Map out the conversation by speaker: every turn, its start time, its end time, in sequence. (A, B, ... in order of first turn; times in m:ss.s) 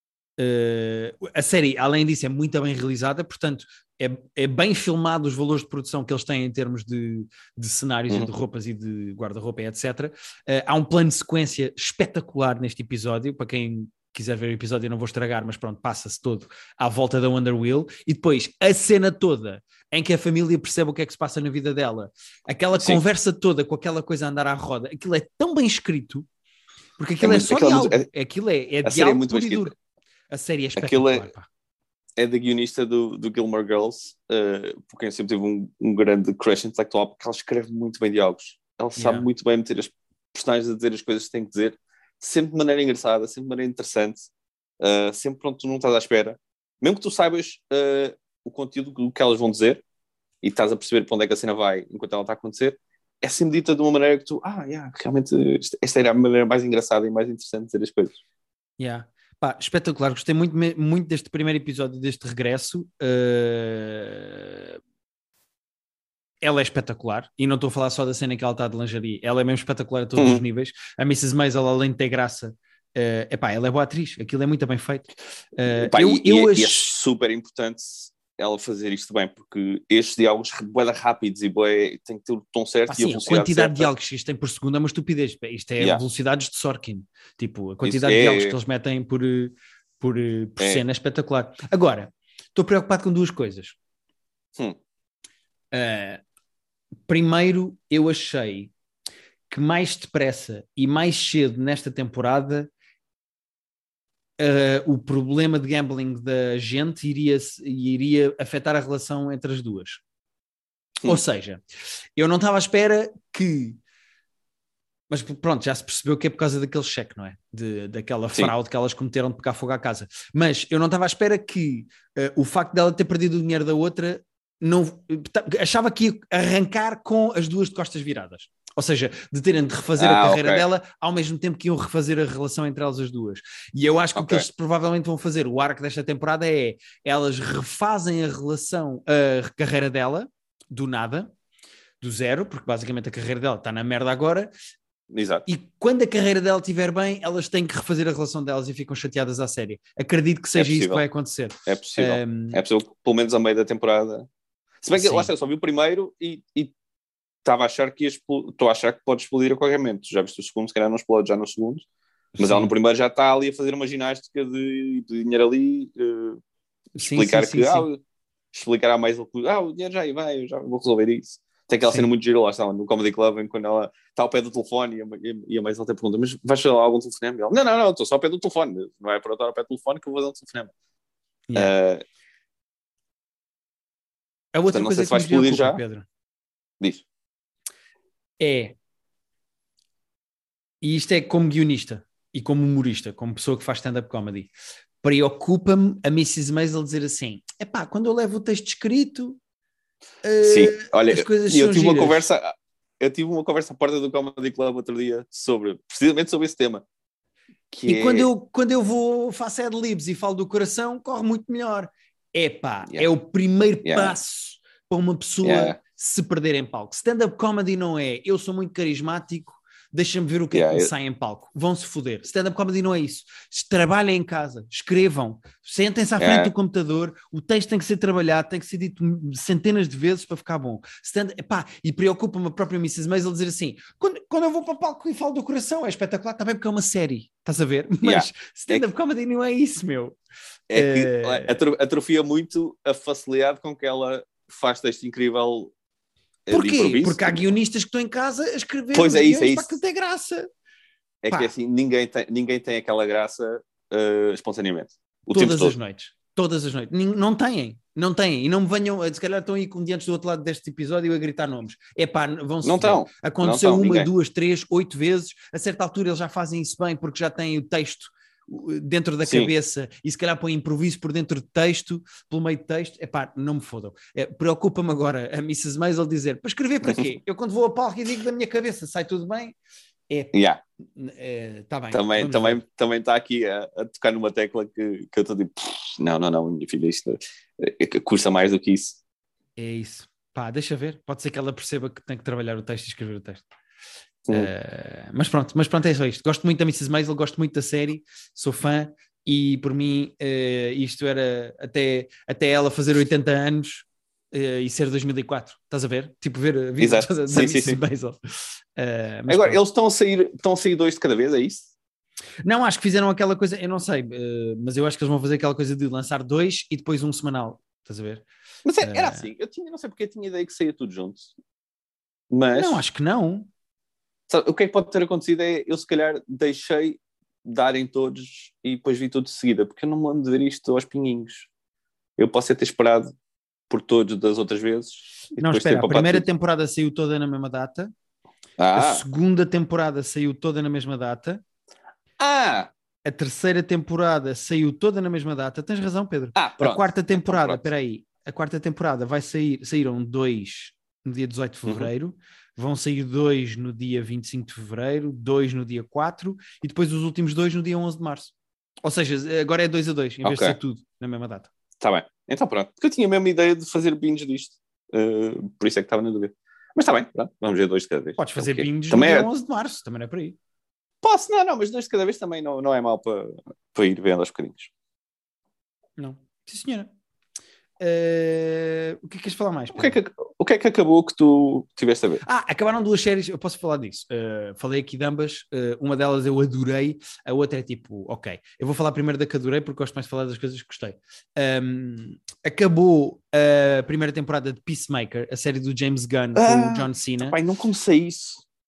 0:00.4-0:26.3 A
0:27.0-0:29.7 A
0:27.2-0:28.1 B
0:28.8-0:29.7 B
0:30.3-0:31.5 A
0:30.8-0:31.3 B
0:32.2-0:49.8 B
0:39.0-0:39.3 A
0:50.4-0:58.2 B
0:58.8-1:04.8 A
1:06.4-1:16.9 A
1:10.2-1:10.4 B
1:15.7-1:23.9 B
1:22.9-1:33.8 A
1:27.8-1:28.6 B
1:35.7-1:36.2 A
1:37.1-1:38.7 A
1:39.5-1:42.7 A
1:44.4-1:50.0 A
1:51.0-1:51.6 A
1:52.2-1:53.8 A
1:55.1-2:21.3 A
2:10.0-2:10.7 B
2:14.2-2:14.5 B
2:22.0-2:24.5 A
2:25.1-2:25.4 B
2:25.5-2:32.6 A
2:30.6-2:31.0 B
2:31.7-2:34.3 B
2:34.8-2:36.7 B
2:35.0-2:35.3 A
2:37.4-2:41.9 B
2:42.4-2:42.7 A
2:42.4-2:46.4 B
2:47.0-2:47.9 A
2:47.0-2:48.0 B
2:48.5-3:00.7 B
3:01.6-3:02.0 B
3:04.5-3:06.1 A
3:04.7-3:05.8 B
3:08.4-3:08.8 A
3:10.8-3:14.5 A
3:15.0-3:19.4 A
3:20.2-3:22.3 A
3:20.4-3:26.8 B
3:27.7-3:28.3 B
3:27.9-4:00.2 A
3:33.8-3:34.2 B
3:35.4-3:35.8 B
3:40.5-3:40.9 B
3:46.2-3:46.5 B
3:58.0-3:58.9 B
4:00.7-4:05.7 B
4:00.8-4:01.6 A
4:06.5-4:07.4 B
4:06.5-4:10.5 A
4:08.9-4:09.8 B
4:11.2-4:15.8 B
4:15.3-4:39.6 A
4:22.6-4:24.1 B
4:29.2-4:29.5 B
4:40.3-4:40.6 B
4:41.0-4:42.6 A
4:41.9-4:49.0 B
4:49.6-4:53.4 A
4:54.3-5:08.2 A
5:06.8-5:07.8 B
5:08.8-5:09.6 A
5:09.3-5:11.7 B
5:12.4-5:18.2 A
5:18.6-5:21.3 B
5:18.8-5:19.3 A
5:22.3-5:22.8 B
5:22.5-5:23.5 A
5:24.3-5:31.5 B
5:32.2-5:33.1 B
5:33.7-5:36.2 B
5:35.4-5:37.9 A
5:38.6-5:39.0 B
5:38.8-5:41.4 A
5:42.2-5:42.7 B
5:43.0-5:58.3 A
5:46.4-5:47.6 B
5:58.8-6:01.5 A
6:00.2-6:00.6 B
6:01.8-6:09.3 B
6:08.2-6:10.4 A
6:11.0-6:14.7 B
6:16.0-6:16.9 A
6:17.8-6:20.0 A
6:19.8-6:22.2 B
6:22.2-6:37.4 A
6:36.4-6:38.4 B